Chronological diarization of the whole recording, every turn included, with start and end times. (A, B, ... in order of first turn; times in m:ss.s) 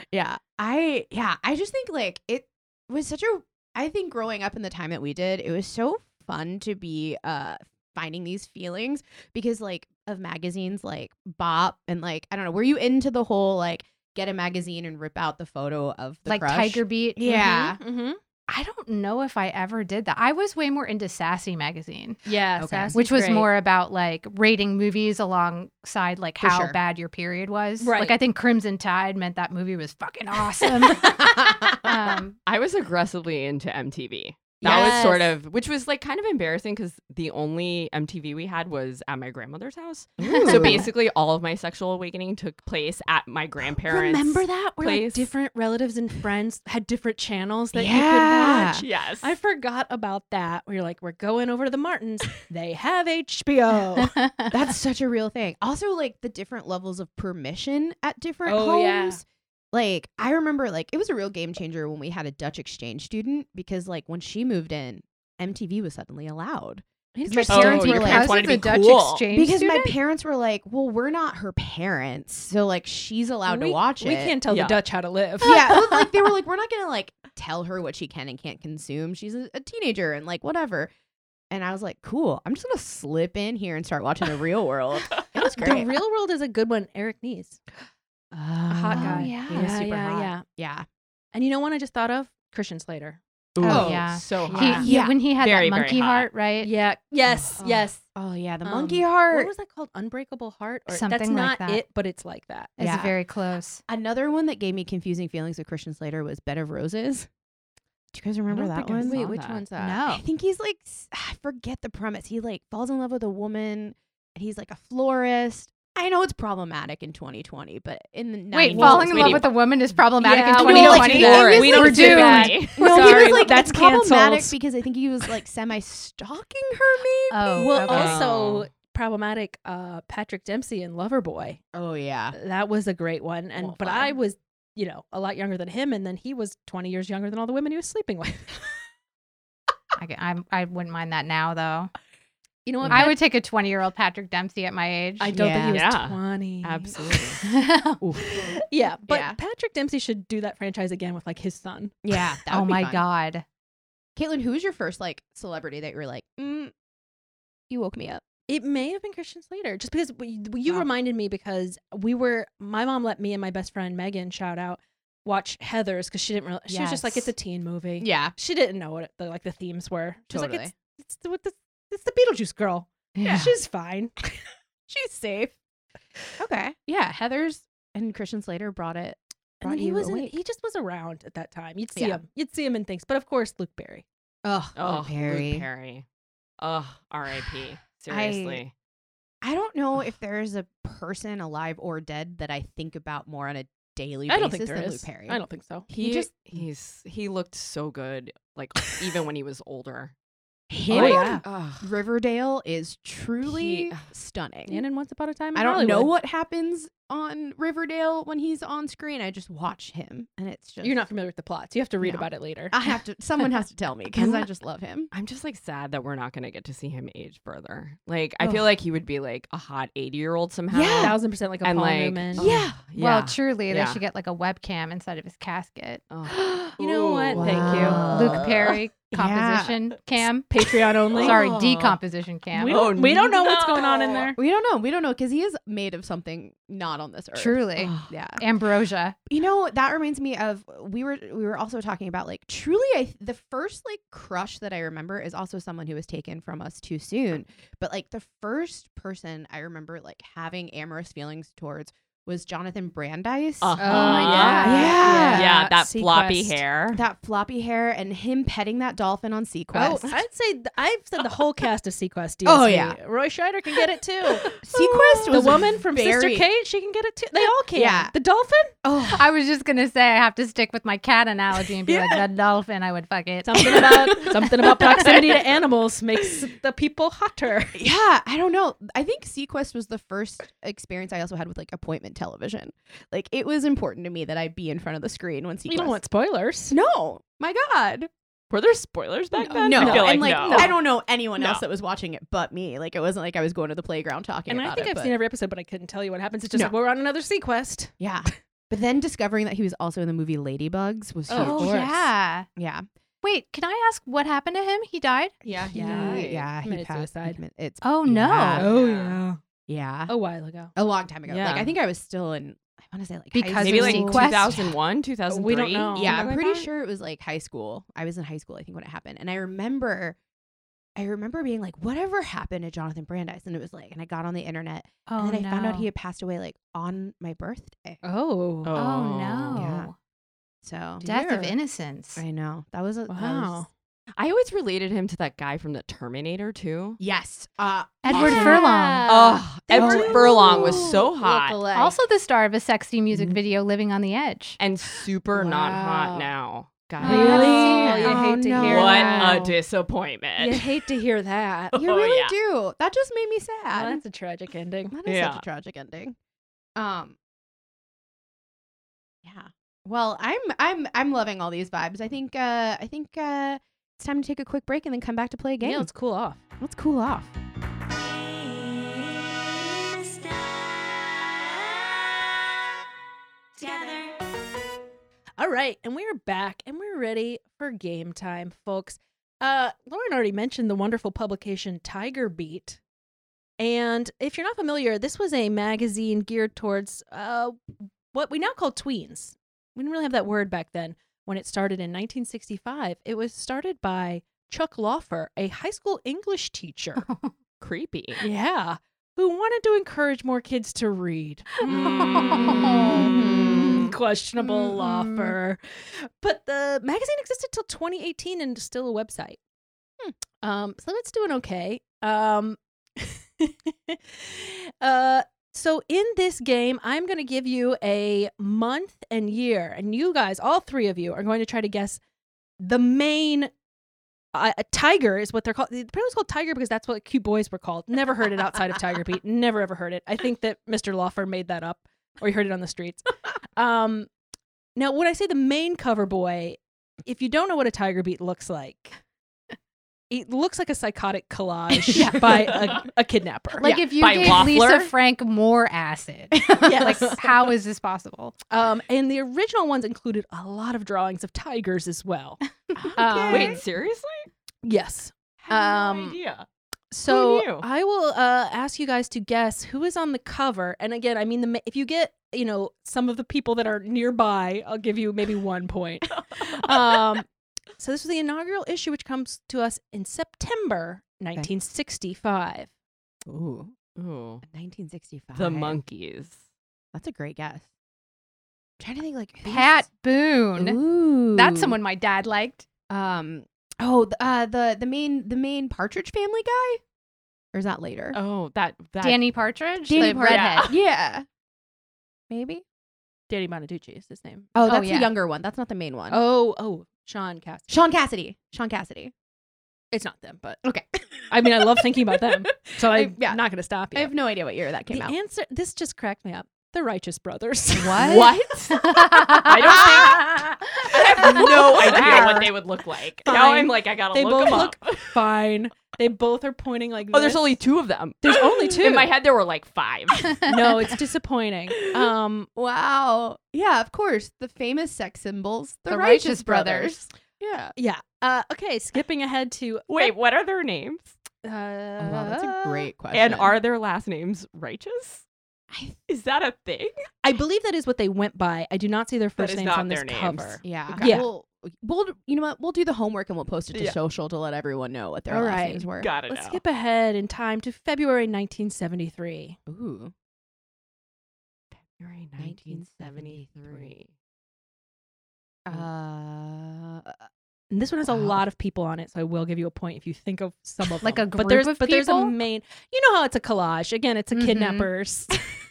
0:00.1-0:17.8 A
0:16.3-0:17.8 B
0:17.8-0:18.2 C
0:18.5-0:22.2 B
0:22.2-0:23.5 C
0:22.6-0:23.0 A
0:22.9-0:32.4 B
0:26.4-0:26.8 A
0:27.8-0:28.2 C
0:31.0-0:31.8 A
0:32.4-0:45.3 D
0:34.6-0:35.4 C
0:40.3-0:40.8 C
0:40.3-0:40.8 B
0:40.4-0:40.9 A
0:43.9-0:54.1 C
0:47.7-0:48.8 A
0:48.8-0:49.3 D
0:54.0-0:54.5 B
0:54.5-1:08.4 A
0:58.4-0:59.2 C
1:07.2-1:08.3 C
1:07.5-1:09.3 D
1:07.5-1:10.0 B
1:09.3-1:14.4 A
1:13.5-1:15.7 C
1:14.5-1:14.8 D
1:15.4-1:20.9 A
1:21.5-1:25.9 A
1:25.4-1:27.6 C
1:28.3-1:30.9 A
1:28.7-1:30.4 C
1:28.9-1:29.8 B
1:31.3-1:33.2 C
1:33.6-1:36.3 D
1:33.6-1:35.2 A
1:33.6-1:36.7 B
1:34.5-1:34.9 C
1:36.6-1:38.0 C
1:37.6-1:39.5 A
1:38.6-1:42.7 C
1:40.9-1:41.8 B
1:42.8-1:43.8 B
1:42.8-1:43.2 A
1:43.9-1:47.3 A
1:48.1-1:49.3 A
1:48.5-1:49.8 D
1:49.0-1:50.0 C
1:49.8-1:50.2 B
1:50.1-1:59.5 A
1:58.5-2:02.9 B
1:58.7-1:59.5 D
1:58.8-1:59.3 C
2:00.2-2:08.2 A
2:00.3-2:04.6 C
2:00.6-2:03.4 D
2:07.3-2:08.2 B
2:07.6-2:11.6 C
2:07.8-2:08.7 D
2:11.7-2:12.4 A
2:12.3-2:18.5 C
2:13.6-2:14.1 A
2:20.0-2:21.9 B
2:22.7-2:23.2 C
2:22.8-2:23.1 A
2:22.9-2:25.4 B
2:25.2-2:27.3 C
2:25.3-2:25.8 A
2:25.7-2:27.4 D
2:27.4-2:28.0 B
2:28.7-2:32.0 C
2:29.1-2:29.4 A
2:32.0-2:33.0 A
2:32.5-2:33.4 B
2:34.2-2:36.7 A
2:37.7-2:38.2 A
2:38.5-2:54.2 C
2:46.7-2:47.3 A
2:48.0-2:48.3 A
2:50.3-2:50.7 A
2:53.2-2:53.5 A
2:53.2-2:53.5 B
2:54.9-2:55.6 A
2:56.4-3:00.4 A
2:59.6-3:04.0 C
3:02.0-3:02.2 A
3:04.4-3:05.7 A
3:04.8-3:06.0 D
3:06.6-3:08.7 D
3:08.1-3:08.6 A
3:09.4-3:16.6 A
3:14.3-3:15.9 C
3:15.9-3:20.1 D
3:20.7-3:24.8 A
3:20.9-3:21.9 D
3:20.9-3:21.4 C
3:23.4-3:24.1 D
3:24.7-3:26.1 C
3:25.5-3:31.1 A
3:30.8-3:32.7 C
3:32.0-3:35.1 A
3:34.2-3:34.4 D
3:35.1-3:44.0 D
3:38.4-3:38.7 A
3:40.7-3:41.2 A
3:41.0-3:42.5 C
3:42.4-3:42.8 A
3:43.0-3:46.0 B
3:46.1-3:48.8 D
3:46.8-3:48.0 C
3:47.4-3:48.5 A
3:48.0-3:50.5 B
3:49.1-3:49.8 A
3:50.5-3:51.4 C
3:51.2-3:52.0 D
3:51.2-3:52.8 B
3:52.5-3:54.4 C
3:52.6-3:54.3 D
3:54.4-3:58.4 A
3:57.4-3:59.2 B
3:57.8-3:58.1 D
3:59.3-4:14.1 A
4:13.6-4:17.0 D
4:13.8-4:15.4 B
4:13.8-4:16.6 C
4:14.6-4:15.5 A
4:16.9-4:20.1 A
4:19.7-4:24.5 C
4:22.4-4:23.0 A
4:24.6-4:26.5 A
4:25.3-4:28.8 C
4:27.7-4:28.1 A
4:28.8-4:29.3 A
4:29.1-4:34.3 B
4:33.4-4:37.8 C
4:33.6-4:34.3 A
4:37.8-4:46.0 A
4:45.7-4:46.8 C
4:46.7-4:48.1 A
4:48.5-4:50.8 D
4:49.4-4:50.8 C
4:49.4-4:55.2 A
4:54.5-4:57.9 C
4:58.0-5:02.8 A
5:01.3-5:01.9 C
5:01.4-5:02.5 B
5:03.2-5:05.8 B
5:05.4-5:06.5 D
5:05.7-5:08.7 A
5:05.7-5:07.4 C
5:07.8-5:08.7 B
5:08.6-5:09.2 D
5:08.6-5:09.4 C
5:09.7-5:10.1 A
5:10.1-5:10.7 C
5:10.8-5:14.6 A
5:11.3-5:11.8 D
5:13.3-5:14.7 B
5:13.6-5:16.7 D
5:15.3-5:16.3 C
5:16.0-5:20.2 A
5:21.0-5:28.0 A
5:25.1-5:25.9 B
5:28.0-5:28.8 C
5:28.6-5:29.6 D
5:28.8-5:30.0 B
5:29.5-5:29.9 A
5:30.6-5:31.5 A
5:31.0-5:32.2 B
5:32.2-5:33.6 A
5:33.1-5:33.7 C
5:34.2-5:37.0 D
5:37.0-5:41.6 A
5:38.0-5:39.1 B
5:38.1-5:41.7 D
5:38.2-5:38.5 C
5:39.7-5:40.9 C
5:39.8-5:40.3 B
5:41.7-5:44.6 B
5:44.6-5:48.0 D
5:47.0-5:48.4 B
5:47.0-5:49.6 C
5:47.0-5:49.3 A
5:48.6-5:50.6 D
5:50.4-5:51.8 C
5:51.8-5:54.0 A
5:51.8-5:52.4 D
5:53.7-5:55.0 C
5:54.9-5:56.2 A
5:55.1-5:55.4 D
5:56.8-5:57.2 A
5:59.2-6:05.9 A
6:05.6-6:06.4 C
6:06.6-6:07.3 A
6:07.9-6:12.4 E
6:13.6-6:14.2 E
6:15.4-6:22.8 C
6:23.6-6:27.6 C
6:28.1-6:37.0 C
6:37.0-6:37.3 B
6:37.6-6:38.2 D
6:38.2-6:41.7 C
6:41.7-6:43.9 D
6:41.8-6:43.1 B
6:42.9-6:43.9 A
6:43.6-6:49.4 C
6:44.4-6:45.1 A
6:50.4-7:02.0 C
7:02.6-7:03.5 C
7:04.3-7:14.1 C
7:14.8-7:19.0 C
7:20.1-7:23.7 C
7:21.9-7:22.5 B
7:23.6-7:28.4 B
7:23.6-7:24.4 A
7:23.7-7:24.9 D
7:26.4-7:26.8 A
7:26.6-7:27.2 C
7:28.5-7:32.4 C
7:32.8-7:33.6 A
7:33.0-7:33.6 C
7:33.2-7:34.3 D
7:34.6-7:36.2 C
7:35.4-7:36.4 D
7:36.9-7:47.3 C
7:37.1-7:37.7 D
7:46.2-7:46.7 D
7:47.8-7:52.7 C
7:53.3-7:53.8 A
7:54.0-7:54.4 D
7:54.4-7:55.8 A
7:55.4-7:56.4 D
7:56.9-7:57.7 A
7:58.8-7:59.9 A
7:59.4-8:00.8 B
8:00.6-8:01.8 A
8:01.4-8:02.7 B
8:02.9-8:06.8 A
8:07.5-8:08.2 A
8:08.1-8:10.7 D
8:09.0-8:10.7 B
8:09.9-8:11.3 A
8:12.3-8:12.6 A
8:13.3-8:14.5 C
8:14.6-8:16.2 A
8:14.6-8:15.1 B
8:16.1-8:17.7 C
8:17.7-8:19.1 A
8:19.9-8:20.6 C
8:20.6-8:21.7 A
8:21.3-8:24.1 C
8:22.5-8:25.2 A
8:24.9-8:28.2 C
8:27.9-8:28.9 D
8:27.9-8:30.6 B
8:29.5-8:30.2 C
8:29.5-8:30.2 D
8:29.7-8:30.2 A
8:30.9-8:35.2 D
8:31.2-8:32.5 A
8:31.7-8:32.4 C
8:33.3-8:37.6 C
8:37.1-8:40.4 D
8:38.2-8:39.2 C
8:40.5-8:42.5 C
8:42.6-8:47.7 A
8:45.9-8:47.0 B
8:47.8-8:50.2 C
8:49.9-8:51.2 D
8:51.4-8:52.8 C
8:52.0-8:53.5 A
8:53.1-8:55.3 D
8:55.7-8:56.0 A
8:56.1-8:56.9 D
8:57.2-9:01.3 C
8:59.4-9:01.2 D
9:00.6-9:06.1 A
9:03.7-9:04.0 D
9:05.3-9:09.6 C
9:06.0-9:06.6 D
9:09.7-9:10.1 A
9:11.8-9:14.1 D
9:12.4-9:13.9 A
9:15.7-9:17.2 A
9:17.7-9:25.4 C
9:18.1-9:18.4 A
9:21.0-9:22.4 B
9:24.3-9:24.9 A